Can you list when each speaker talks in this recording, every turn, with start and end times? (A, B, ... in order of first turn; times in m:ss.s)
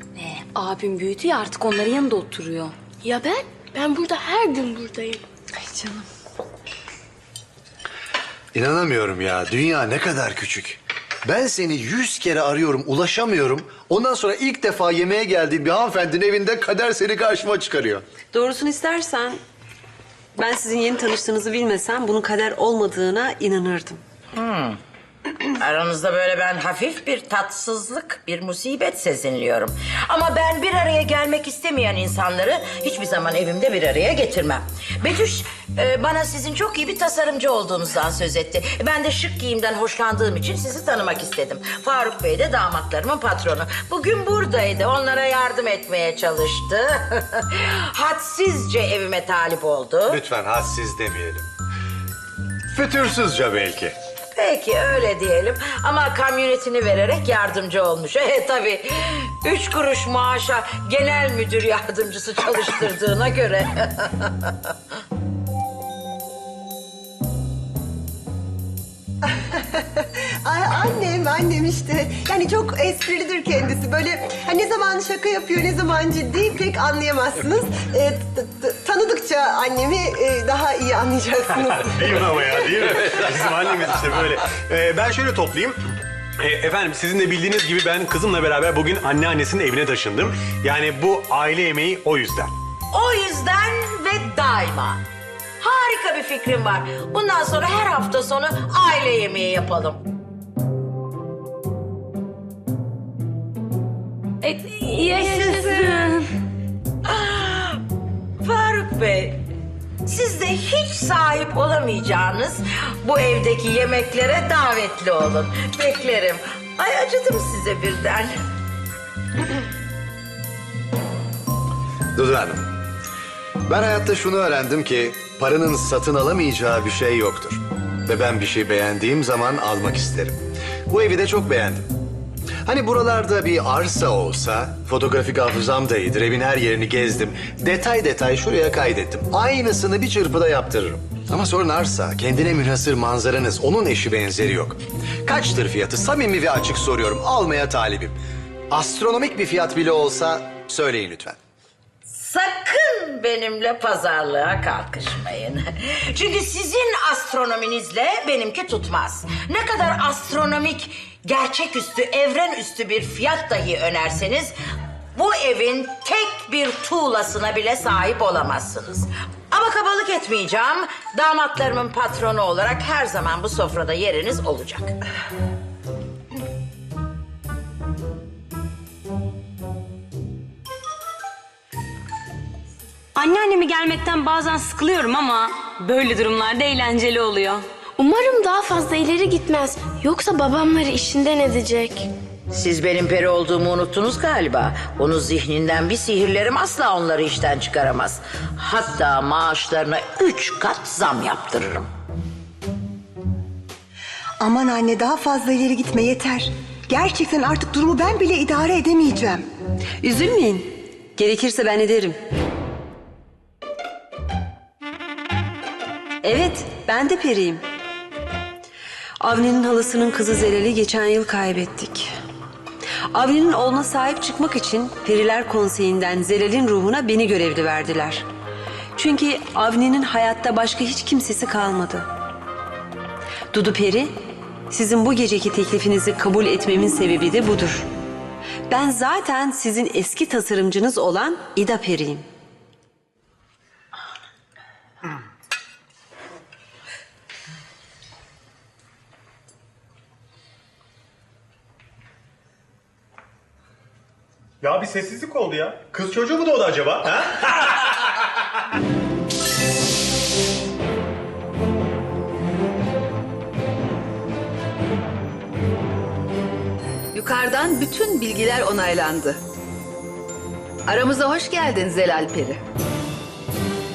0:00.2-0:02.7 A
0:03.0-0:05.2 B
0:08.5-0:18.0 C
0:18.3-0:19.4 D
0:20.3-0:24.0 D
0:24.3-0:24.8 E
0:25.6-0:50.2 E
0:50.0-0:51.5 C
0:52.7-0:54.0 C
0:54.3-1:04.5 E
1:09.3-1:22.2 F
1:21.7-1:25.8 G
1:26.4-1:32.5 G
1:32.9-1:35.0 E
1:35.6-1:40.0 E
1:44.4-1:46.2 B
1:45.5-1:46.0 E
1:47.0-1:47.8 E
1:48.4-1:49.4 E
1:50.0-1:58.4 E
2:02.1-2:02.7 C
2:03.6-2:11.8 C
2:12.6-2:28.2 C
2:28.7-2:31.4 C
2:32.1-2:44.5 E
2:45.2-2:54.9 E
3:03.2-3:07.6 A
3:08.0-3:12.1 B
3:12.5-3:21.9 E
3:24.4-3:29.4 F
3:30.0-3:32.2 D
3:36.2-3:37.6 D
3:39.2-3:42.1 D
3:43.1-3:48.2 D
3:49.0-3:52.1 D
3:53.5-3:54.1 D
3:54.7-3:57.9 D
3:58.7-4:02.2 D
4:14.6-4:18.0 G
4:27.1-4:29.4 H
4:30.8-4:32.6 H